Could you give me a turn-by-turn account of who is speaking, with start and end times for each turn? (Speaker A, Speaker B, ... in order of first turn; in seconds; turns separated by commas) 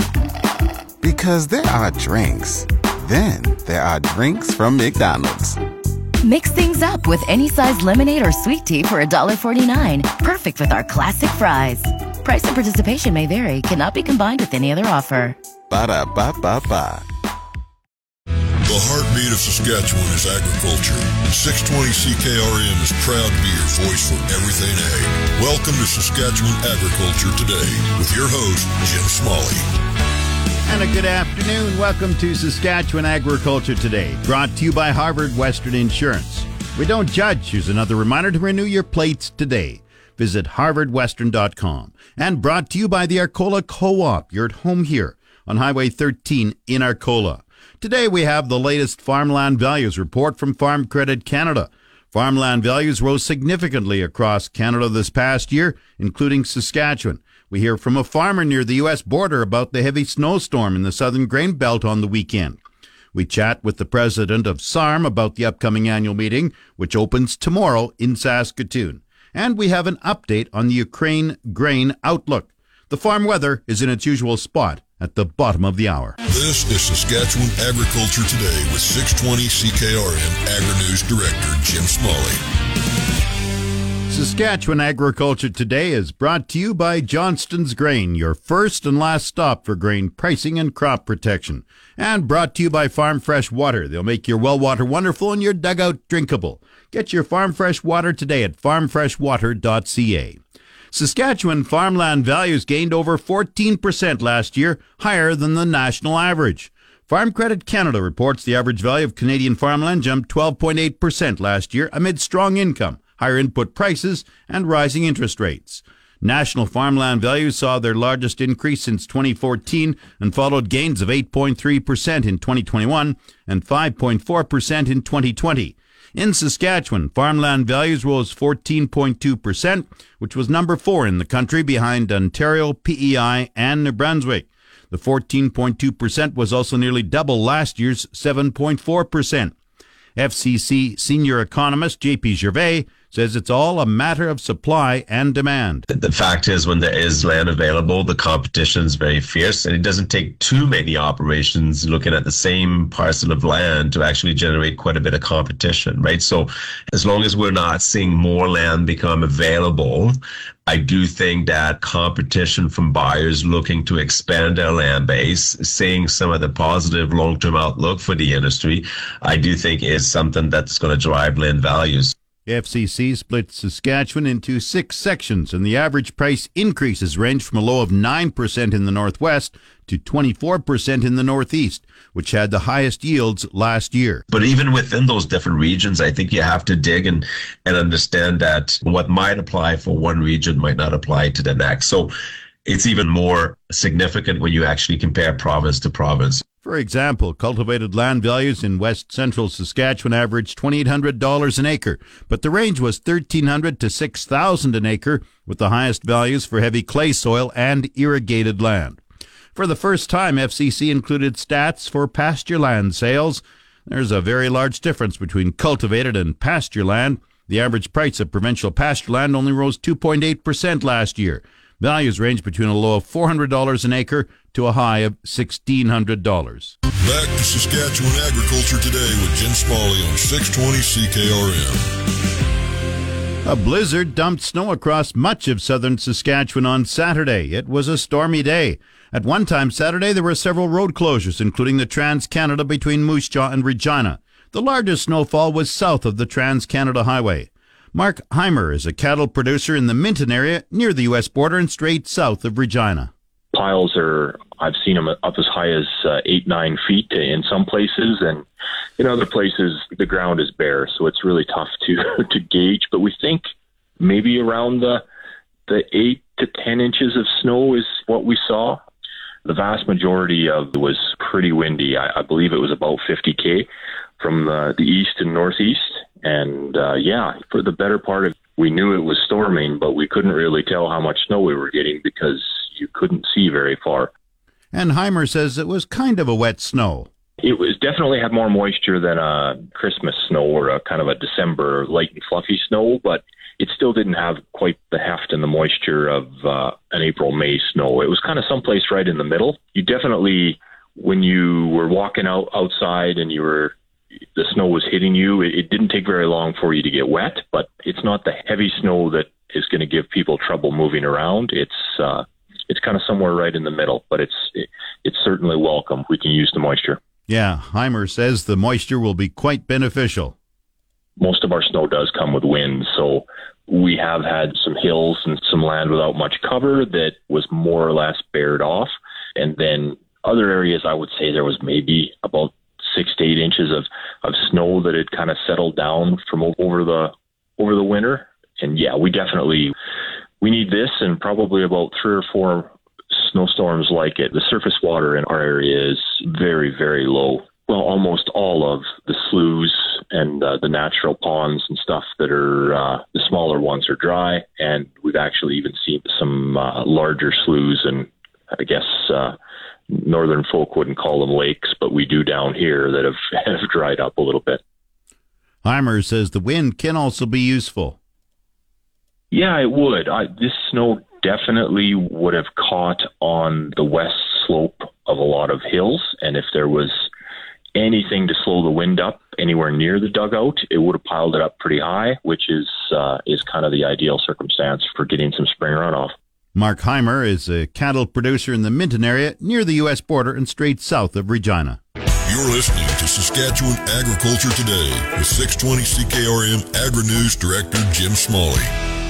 Speaker A: 1.0-5.6, Speaker B: 6.2-15.4, Speaker A: 15.7-17.1, Speaker C: 18.6-29.6, Speaker D: 30.6-62.6, Speaker D: 63.1-76.2, Speaker C: 76.3-82.4, Speaker D: 84.1-100.4, Speaker D: 100.9-139.5, Speaker D: 140.2-145.8, Speaker E: 145.9-172.1, Speaker D: 172.4-184.2, Speaker E: 184.3-192.1, Speaker E: 192.6-196.4, Speaker D: 196.6-209.0, Speaker D: 209.5-226.8, Speaker C: 227.0-231.9, Speaker D: 233.4-253.1, Speaker F: 253.5-258.4, Speaker F: 259.0-263.4, Speaker F: 264.0-265.0, Speaker F: 265.7-268.8, Speaker F: 269.4-273.7, Speaker F: 274.2-284.1, Speaker D: 284.7-287.1, Speaker F: 287.4-303.7, Speaker F: 304.4-317.0, Speaker D: 317.3-320.4, Speaker F: 321.2-339.7, Speaker F: 340.4-359.4, Speaker F: 359.9-364.6, Speaker D: 365.6-368.0, Speaker F: 369.3-377.1, Speaker F: 377.8-386.1, Speaker D: 386.5-391.8, Speaker C: 392.2-398.7